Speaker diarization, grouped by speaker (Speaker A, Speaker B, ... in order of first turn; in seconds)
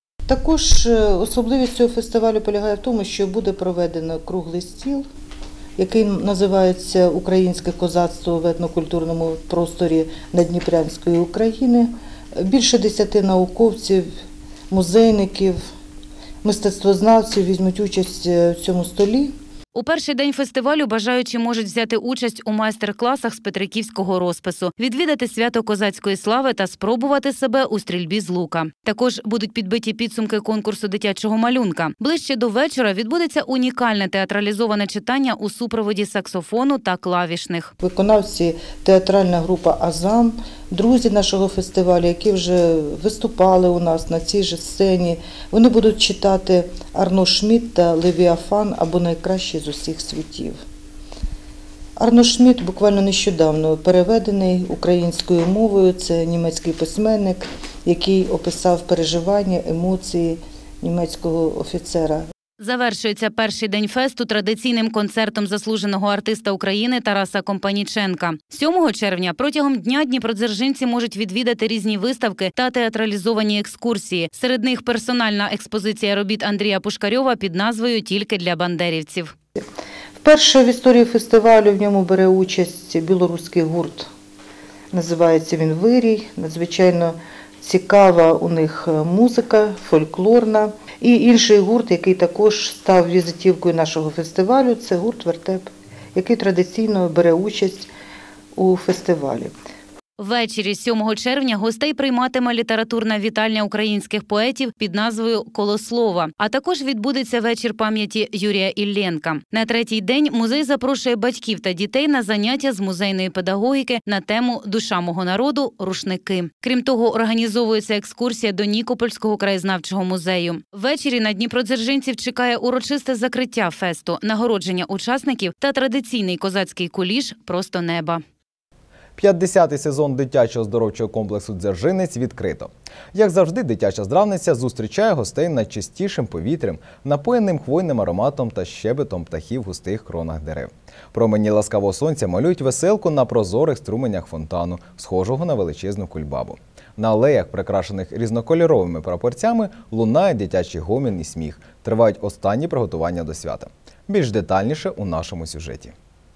Speaker A: 0.3-5.1, 5.8-14.1, 14.7-15.7, 16.4-19.3, 37.8-50.6, 52.0-62.2, 80.2-84.1, 84.9-97.9, 98.5-99.5
Speaker B: 19.7-37.7, 62.6-79.3, 100.2-128.2
Speaker C: 129.2-155.9